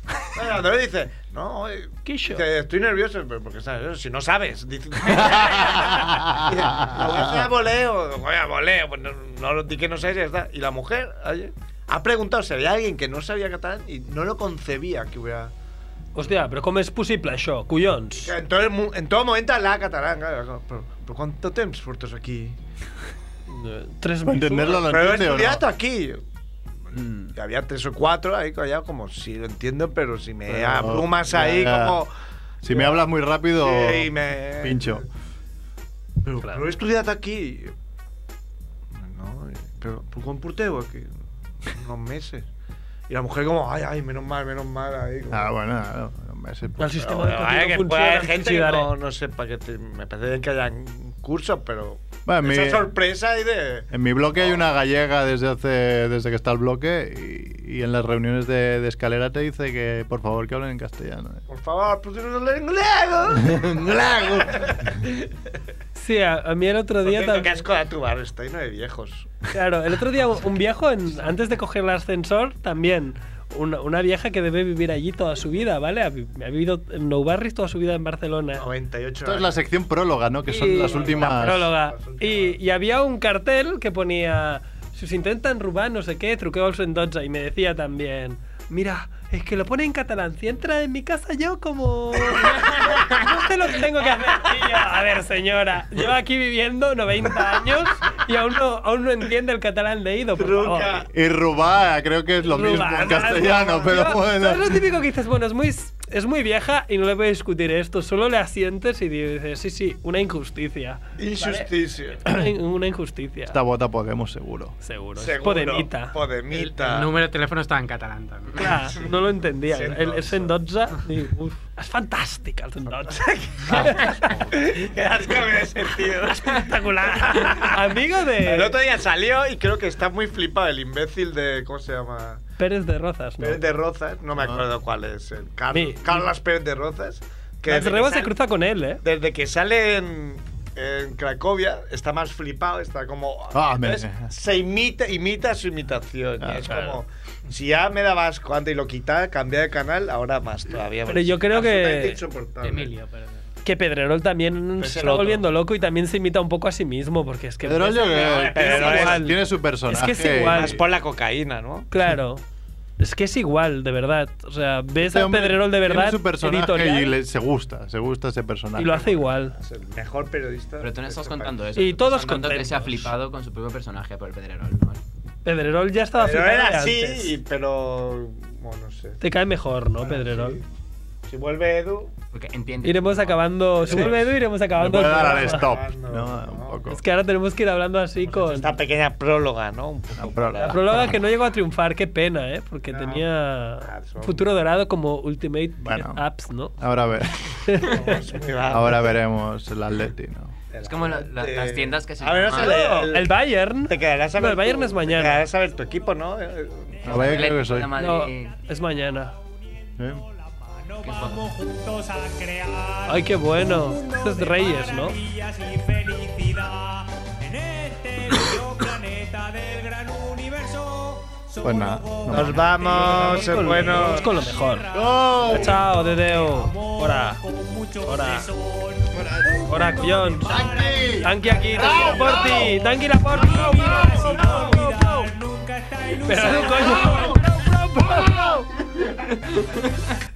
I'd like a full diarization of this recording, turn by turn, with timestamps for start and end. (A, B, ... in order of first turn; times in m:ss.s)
0:00.3-0:15.5 A
0:02.0-0:02.4 B
0:05.1-0:07.4 C
0:16.1-0:18.3 B
0:18.2-0:22.6 A
0:23.5-0:24.9 B
0:24.3-0:25.6 C
0:24.7-0:26.2 A
0:27.0-0:27.3 C
0:27.3-0:32.1 A
0:30.5-0:32.0 C
0:32.6-0:35.0 C
0:32.6-0:33.0 A
0:33.6-0:35.0 A
0:36.2-0:37.7 A
0:38.9-0:41.1 A
0:41.6-0:42.4 A
0:43.1-0:45.5 A
0:45.3-0:47.0 C
0:46.8-0:48.9 B
0:47.0-0:54.6 A
0:52.3-0:52.9 C
0:53.9-1:01.4 C
1:01.5-1:05.2 A
1:03.3-1:04.6 C
1:05.9-1:07.6 B
1:07.0-1:09.5 A
1:09.5-1:18.6 B
1:18.6-1:19.6 A
1:19.2-1:21.7 C
1:20.5-1:41.0 B
1:20.9-1:22.6 A
1:40.4-1:41.1 A
1:41.1-1:44.8 C
1:42.4-1:51.7 B
1:51.2-1:52.2 A
1:52.2-1:53.6 B
1:53.5-1:54.8 C
1:54.8-1:56.1 B
1:55.2-1:57.1 A
1:56.5-1:58.7 D
1:58.6-2:04.8 B
1:59.7-2:00.6 A
2:02.9-2:07.8 A
2:06.4-2:08.8 B
2:08.4-2:12.4 A
2:12.6-2:13.7 B
2:13.4-2:18.3 A
2:15.7-2:16.3 B
2:17.6-2:19.0 B
2:19.0-2:33.0 A
2:23.5-2:24.3 C
2:26.4-2:26.8 C
2:31.1-2:32.2 B
2:32.6-2:33.3 E
2:33.6-2:39.4 B
2:34.8-2:35.4 A
2:37.6-2:40.8 C
2:38.2-2:39.3 A
2:39.9-2:40.8 B
2:40.5-2:41.9 A
2:41.9-2:42.4 B
2:43.0-2:47.2 B
2:45.0-2:49.2 C
2:48.8-2:49.6 B
2:49.6-2:51.8 A
2:50.8-2:55.0 E
2:51.8-2:53.1 B
2:55.4-2:57.3 B
2:56.2-2:59.2 A
2:59.2-3:00.6 B
3:00.0-3:00.6 A
3:01.3-3:02.1 A
3:02.3-3:03.6 E
3:02.8-3:05.7 B
3:03.8-3:04.2 A
3:04.7-3:07.0 C
3:04.8-3:06.8 A
3:06.9-3:08.8 B
3:08.2-3:11.2 A
3:10.2-3:11.2 C
3:10.6-3:16.8 B
3:12.9-3:13.2 A
3:13.8-3:14.5 A
3:15.8-3:16.2 C
3:16.8-3:17.5 C
3:17.6-3:18.2 B
3:17.8-3:19.2 A
3:18.7-3:20.5 C
3:20.7-3:27.3 A
3:20.8-3:22.9 E
3:22.5-3:25.4 B
3:25.6-3:26.3 F
3:26.9-3:52.7 F
3:27.0-3:27.9 C
3:27.2-3:28.6 E
3:28.0-3:29.3 B
3:31.0-3:31.4 E
3:33.1-3:35.2 B
3:41.6-3:42.6 C
3:42.3-3:44.2 A
3:42.9-3:44.9 B
3:44.9-3:45.8 C
3:45.4-3:47.4 B
3:48.1-3:48.5 B
3:49.1-3:49.6 C
3:49.7-3:50.7 B
3:50.4-3:52.8 C
3:51.2-3:55.3 B
3:53.3-3:57.4 F
3:53.6-3:54.6 C
3:56.2-3:58.7 B
3:56.6-3:58.6 C
3:59.5-4:00.1 E